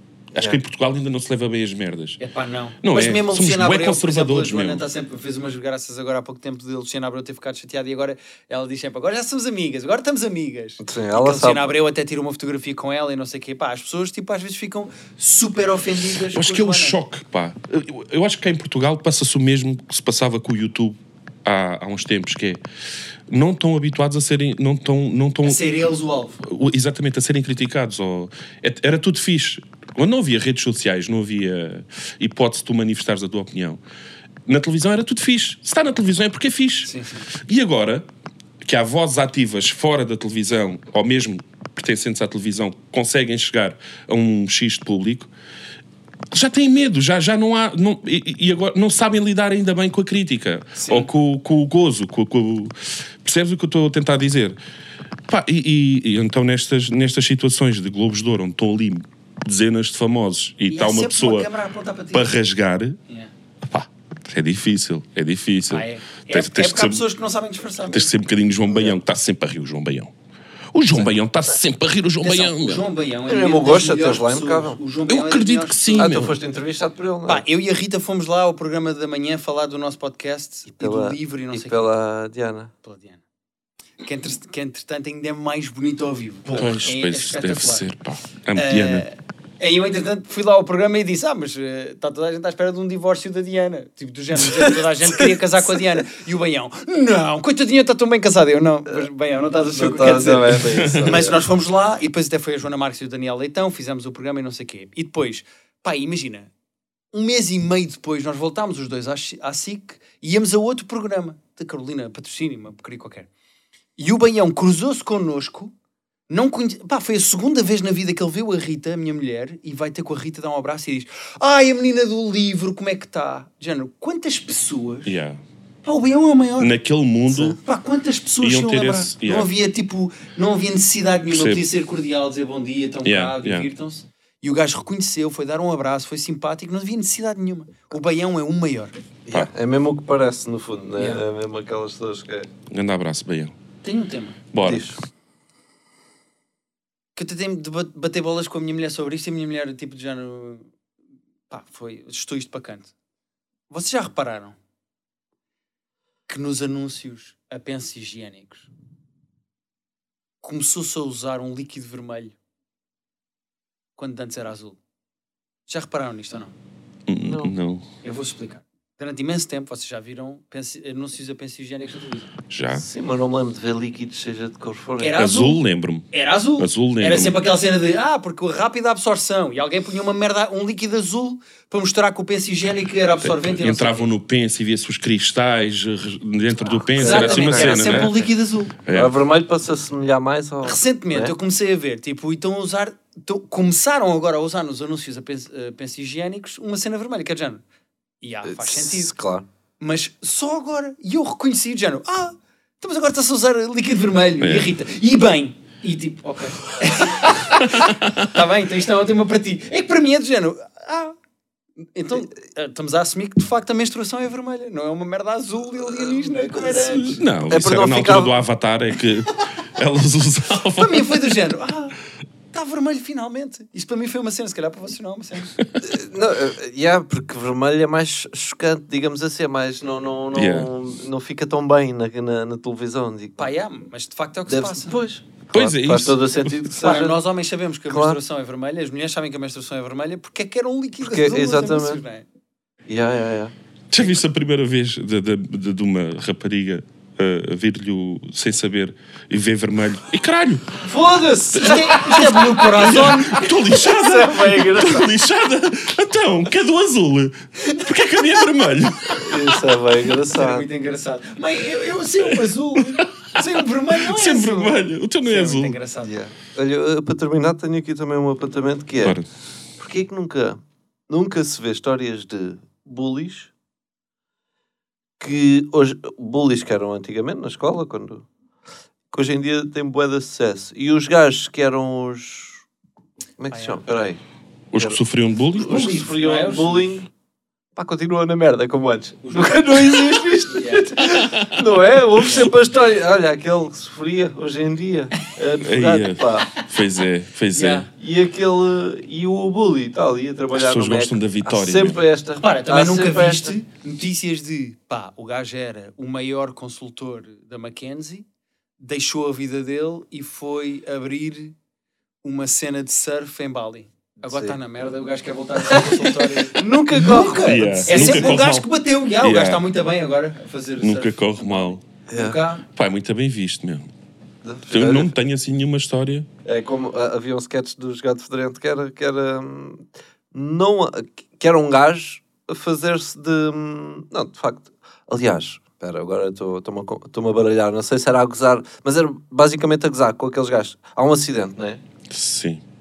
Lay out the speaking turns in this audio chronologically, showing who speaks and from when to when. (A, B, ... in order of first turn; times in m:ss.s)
0:00.3-0:00.6 A
0:00.3-0:02.2 B
0:02.2-0:17.0 C
0:02.8-0:04.8 B
0:10.8-0:11.7 A
0:16.3-0:22.6 B
0:23.3-0:25.6 B
0:25.4-0:26.4 C
0:26.4-0:33.8 B
0:34.4-0:38.0 B
0:36.8-0:37.3 C
0:38.6-0:45.3 B
0:46.3-0:54.6 B
0:50.8-0:51.1 C
0:55.3-1:01.5 B
1:00.7-1:02.3 C
1:02.1-1:03.0 B
1:03.7-1:07.0 B
1:05.7-1:08.1 C
1:07.9-1:10.1 B
1:08.7-1:09.0 A
1:10.7-1:12.8 B
1:12.2-1:16.2 C
1:13.3-1:14.8 A
1:15.1-1:16.3 B
1:15.9-1:17.4 A
1:17.3-1:21.9 C
1:20.8-1:22.7 A
1:22.8-1:23.2 C
1:24.0-1:27.8 C
1:26.5-1:29.0 B
1:28.6-1:46.5 C
1:34.6-1:35.2 A
1:39.7-1:41.4 A
1:40.7-1:41.1 B
1:47.1-1:53.3 C
1:54.0-1:55.7 C
1:56.3-2:05.1 C
2:05.0-2:05.4 B
2:05.8-2:06.7 C
2:06.6-2:07.6 B
2:07.3-2:18.9 C
2:08.4-2:09.5 B
2:11.3-2:11.6 B
2:13.0-2:13.7 B
2:19.2-2:22.5 A
2:21.0-2:21.2 C
2:22.7-2:23.5 B
2:23.8-2:24.4 C
2:24.5-2:24.9 B
2:24.6-2:25.0 A
2:27.2-2:30.7 C
2:31.5-2:32.9 C
2:33.7-2:34.6 C
2:36.3-2:38.7 C
2:40.4-2:42.3 C
2:44.0-2:44.8 C
2:45.7-2:46.5 C
2:47.1-2:47.9 B
2:47.2-2:47.5 A
2:48.0-2:52.3 C
2:52.5-2:52.8 B
2:52.7-2:55.2 A
2:55.0-3:04.1 C
2:55.2-2:57.4 B
3:03.2-3:08.2 B
3:07.0-3:08.1 A
3:07.0-3:08.8 C
3:08.8-3:09.1 B
3:08.9-3:11.3 A
3:10.6-3:17.6 C
3:18.2-3:19.1 C
3:18.4-3:19.5 A
3:19.8-3:31.1 C
3:24.4-3:24.7 B
3:27.5-3:28.3 B
3:31.9-3:37.2 C
3:36.7-3:41.4 B
3:37.5-3:38.4 A
3:40.8-3:42.0 C
3:42.5-3:45.5 C
3:45.8-3:53.5 A
3:50.3-3:50.7 B
3:53.4-3:55.0 C
3:54.5-3:57.2 A
3:55.5-3:56.6 B
3:56.8-4:02.2 C
3:57.9-3:58.2 A
4:01.0-4:02.0 A
4:02.9-4:03.5 A
4:03.9-4:10.8 B
4:10.8-4:15.1 A
4:11.6-4:13.5 C
4:11.6-4:19.5 B
4:19.2-4:20.7 A
4:20.2-4:26.2 C
4:23.9-4:25.8 B
4:26.0-4:29.2 A
4:29.8-4:33.5 A
4:35.2-4:38.2 A
4:39.1-4:42.6 A
4:43.4-4:44.2 A
4:43.5-4:43.8 C
4:44.7-4:45.9 B
4:45.6-4:47.1 A
4:45.6-4:46.9 C
4:47.8-4:56.5 A
4:49.2-4:49.9 C
4:50.4-4:51.0 C
4:51.1-4:51.6 B
4:55.6-4:57.9 B
4:57.5-4:57.9 C
4:57.9-5:03.6 A
5:00.5-5:02.0 B
5:02.4-5:08.2 C
5:08.8-5:11.6 C
5:12.2-5:22.6 C
5:14.2-5:14.6 A
5:15.7-5:18.4 A
5:17.1-5:18.7 B
5:19.2-5:19.6 B
5:20.8-5:21.8 B
5:22.1-5:22.4 A
5:22.7-5:23.9 B
5:24.4-5:25.1 A
5:24.7-5:26.3 B
5:26.4-5:41.8 A
5:42.1-5:42.6 B